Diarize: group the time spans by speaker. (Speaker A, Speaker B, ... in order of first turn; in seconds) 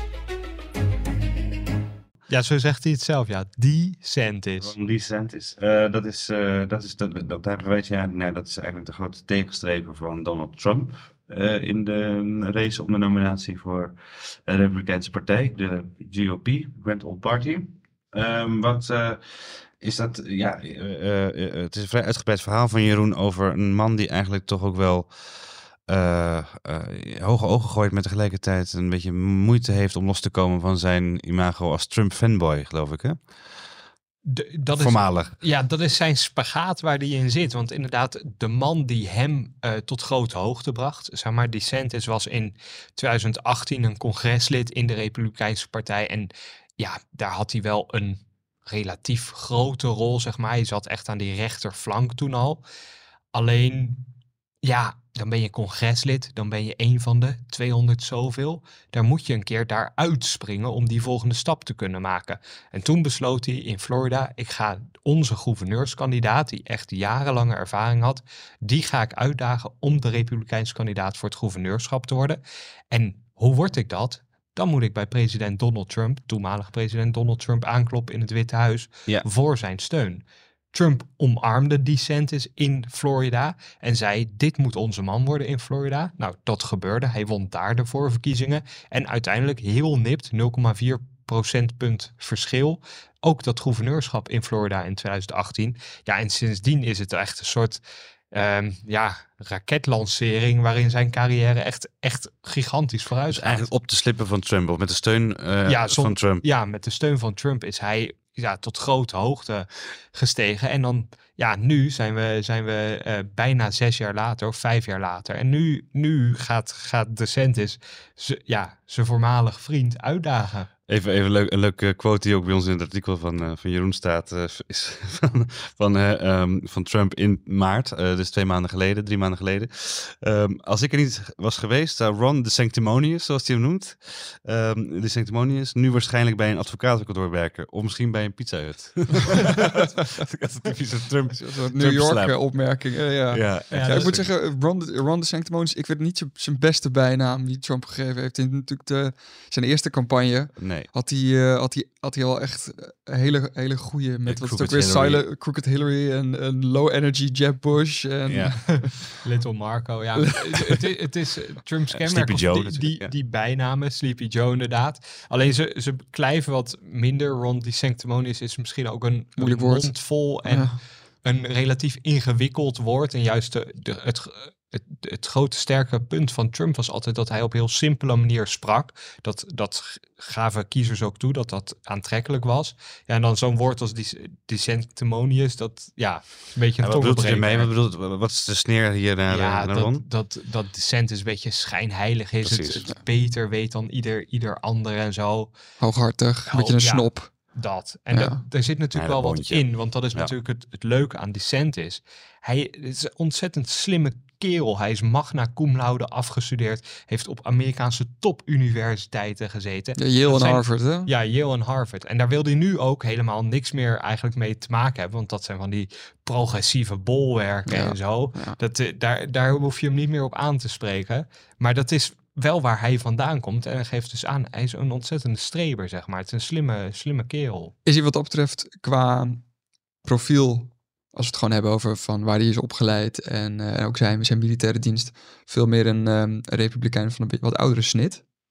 Speaker A: 2.3-4.7, 34.2-52.6, 53.3-54.1, 54.6-97.8, 98.3-103.7, 105.7-120.7, 143.7-144.2, 158.8-187.7, 189.3-195.5, 196.5-227.7
Speaker B: 4.6-33.7, 34.8-35.4, 103.3-106.4, 120.9-144.3, 150.6-150.9, 154.2-155.2, 158.2-159.0, 161.9-163.1, 186.8-190.1, 192.4-192.9, 198.9-200.3
Speaker C: 141.4-158.9, 169.4-170.8, 195.8-197.3, 198.1-198.4, 210.0-211.1, 217.7-218.6, 227.8-229.4, 230.0-238.2